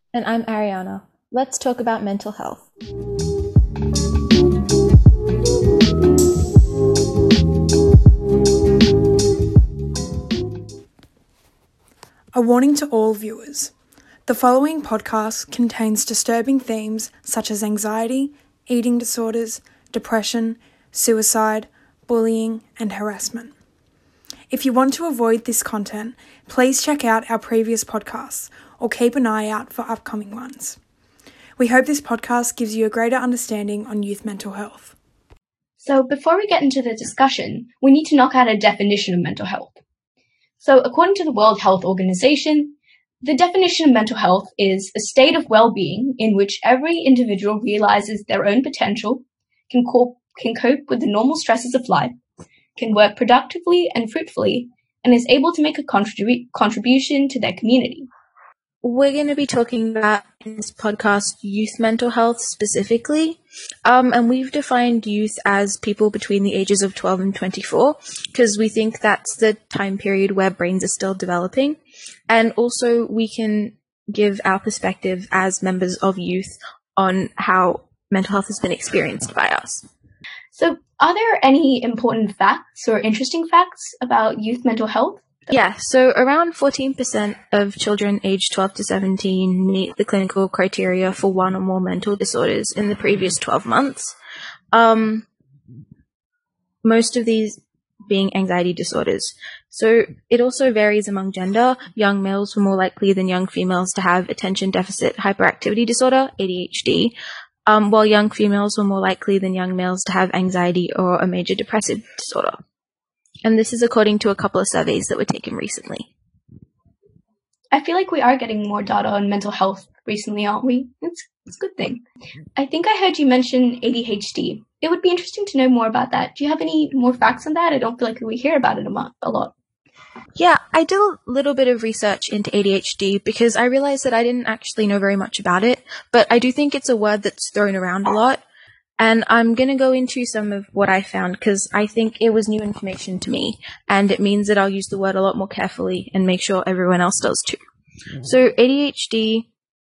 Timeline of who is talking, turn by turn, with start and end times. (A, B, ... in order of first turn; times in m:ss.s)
0:00.1-0:02.7 A
0:12.3-0:13.7 B
0:14.3-0:23.5 B
0:24.5-0:30.8 B
0:31.6-0:34.9 B
0:35.8-0:39.8 C
0:40.6-0:52.1 C
0:52.8-0:58.1 C
0:58.8-1:11.8 A
1:12.3-1:19.8 A
1:20.5-1:25.5 C
1:25.5-1:34.2 A
1:34.7-1:35.3 A
1:36.8-1:47.2 A
1:47.7-1:52.6 A
1:53.4-1:56.1 A
1:57.7-2:02.0 C
2:02.6-2:09.5 C
2:10.4-2:18.4 A
2:19.0-2:27.6 A
2:28.2-2:29.5 A